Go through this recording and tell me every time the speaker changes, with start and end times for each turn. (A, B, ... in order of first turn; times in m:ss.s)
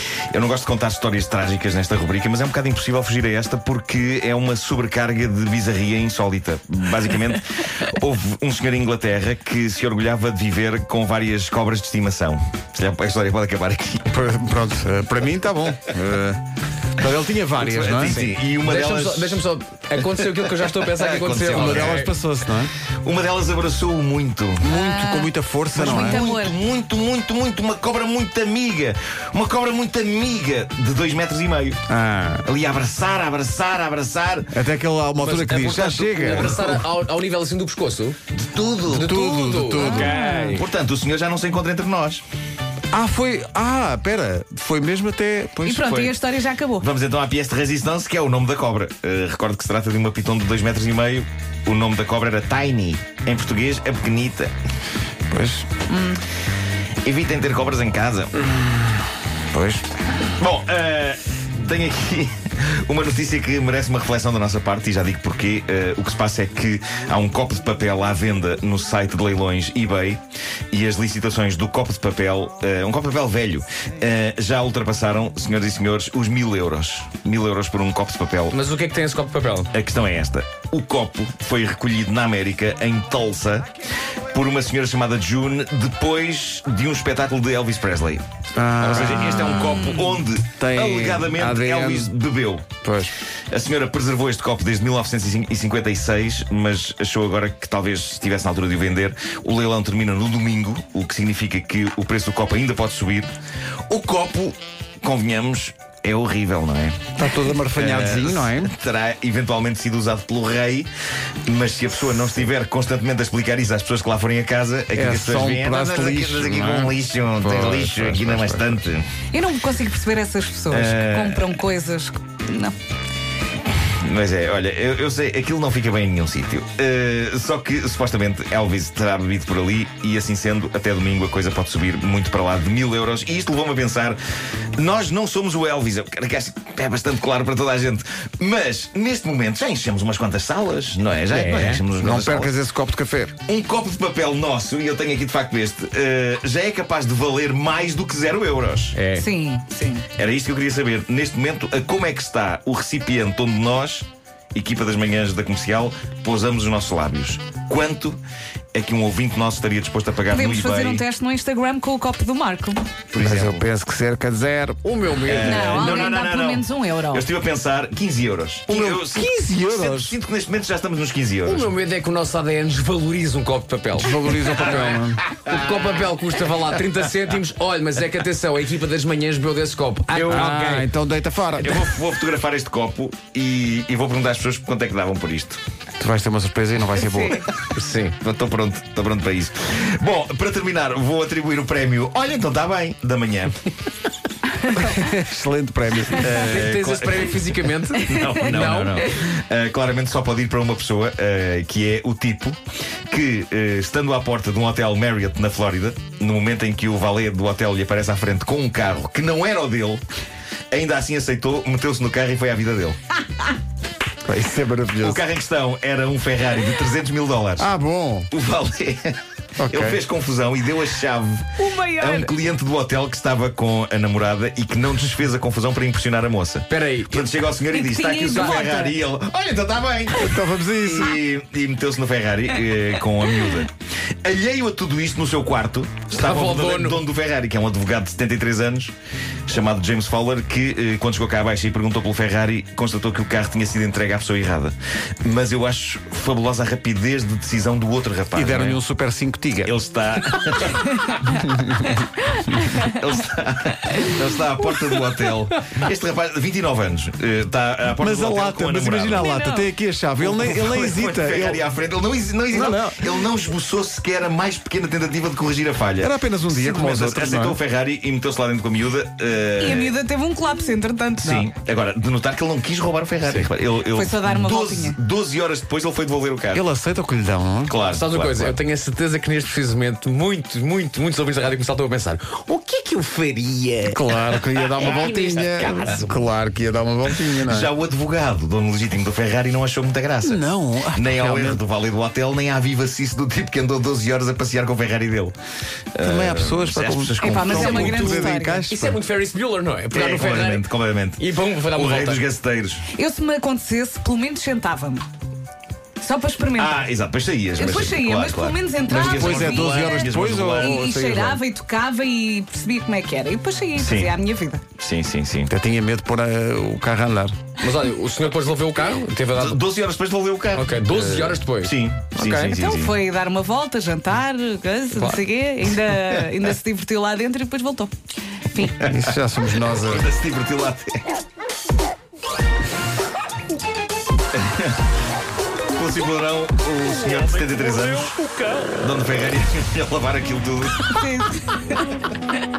0:00.3-0:14.0 A
0:14.1-0:16.4 B
0:17.0-0:18.2 B
0:17.6-0:19.5 A
0:18.0-0:22.1 C
0:20.2-0:22.1 A
0:21.5-0:22.7 B
0:23.0-0:24.7 A
0:24.6-0:26.6 D
0:24.6-0:26.2 B
0:25.8-0:31.8 A
0:31.9-0:32.5 B
0:32.4-0:34.5 A
0:34.5-0:36.8 B
0:35.2-0:38.2 C
0:35.5-0:36.6 A
0:38.4-0:39.2 A
0:38.9-0:40.6 C
0:39.0-0:40.6 B
0:39.8-0:40.6 D
0:40.5-0:42.2 A
0:42.9-0:45.9 B
0:45.6-0:46.9 D
0:45.8-0:46.1 A
0:46.8-0:54.5 A
0:55.3-0:55.7 B
0:55.9-0:56.2 D
0:57.0-0:58.4 A
0:59.5-0:59.8 B
1:00.4-1:10.2 A
1:10.7-1:18.6 A
1:18.5-1:19.7 C
1:19.7-1:23.7 A
1:24.3-1:28.2 A
1:28.6-1:29.7 B
1:28.8-1:32.7 A
1:30.6-1:32.1 B
1:32.8-1:33.2 B
1:33.5-1:43.3 A
1:43.9-1:47.2 A
1:47.2-1:48.7 B
1:47.7-1:50.9 A
1:51.5-1:59.1 A
1:54.9-1:58.8 B
1:59.3-2:02.8 D
2:00.7-2:01.4 A
2:04.0-2:14.2 A
2:14.8-2:22.6 A
2:21.3-2:21.8 C
2:22.0-2:23.4 B
2:23.5-2:29.0 A
2:28.9-2:29.3 C
2:29.2-2:30.1 D
2:30.2-2:38.2 A
2:38.7-2:41.0 A
2:40.3-2:42.8 D
2:43.1-2:43.7 A
2:43.2-2:44.8 B
2:44.8-2:46.0 C
2:45.3-2:51.7 A
2:45.3-2:47.3 D
2:48.7-2:50.1 B
2:51.4-2:54.1 C
2:54.0-2:55.2 B
2:55.4-3:00.9 C
3:00.2-3:01.8 B
3:01.6-3:05.6 A
3:06.0-3:07.4 B
3:07.1-3:07.4 D
3:07.8-3:08.2 C
3:08.2-3:13.6 A
3:14.7-3:16.3 B
3:16.1-3:22.6 A
3:16.3-3:19.1 C
3:23.1-3:30.0 A
3:30.7-3:33.0 A
3:34.2-3:35.2 B
3:35.0-3:37.7 A
3:37.6-3:38.3 B
3:38.3-3:53.7 A
3:39.6-3:40.0 B
3:41.6-3:42.3 D
3:46.7-3:47.3 C
3:47.7-3:49.0 D
3:48.3-3:48.6 C
3:50.1-3:51.2 B
3:54.2-3:58.9 A
3:56.1-3:57.0 C
3:59.5-4:08.8 A
4:08.3-4:09.7 B
4:09.6-4:11.4 A
4:11.4-4:11.8 B
4:12.8-4:19.3 A
4:18.0-4:21.6 B
4:19.2-4:19.7 D
4:20.2-4:30.0 A
4:22.5-4:23.0 B
4:26.0-4:27.6 B
4:29.6-4:31.5 D
4:31.2-4:36.6 A
4:33.9-4:35.0 D
4:36.5-4:37.8 B
4:37.7-4:38.6 A
4:37.8-4:46.1 C
4:43.9-4:47.7 B
4:47.4-4:55.4 A
4:50.2-4:51.6 B
4:56.0-4:58.3 A
4:56.0-4:59.0 B
4:57.2-4:58.7 D
4:57.5-4:58.0 C
4:58.7-5:02.3 C
4:59.9-5:02.8 A
5:02.9-5:05.1 D
5:06.0-5:06.8 D
5:06.6-5:10.9 A
5:07.6-5:14.6 D
5:08.9-5:11.4 B
5:13.8-5:14.1 A
5:14.8-5:15.5 A
5:15.5-5:17.4 B
5:17.6-5:19.6 C
5:19.4-5:20.8 A
5:20.5-5:22.6 C
5:20.9-5:21.4 B
5:21.6-5:23.0 A
5:22.5-5:27.9 D
5:24.9-5:25.2 C
5:28.5-5:28.8 D
5:28.8-5:30.1 B
5:29.8-5:31.0 A
5:34.3-5:34.8 A
5:35.7-5:41.0 A
5:40.9-5:41.9 D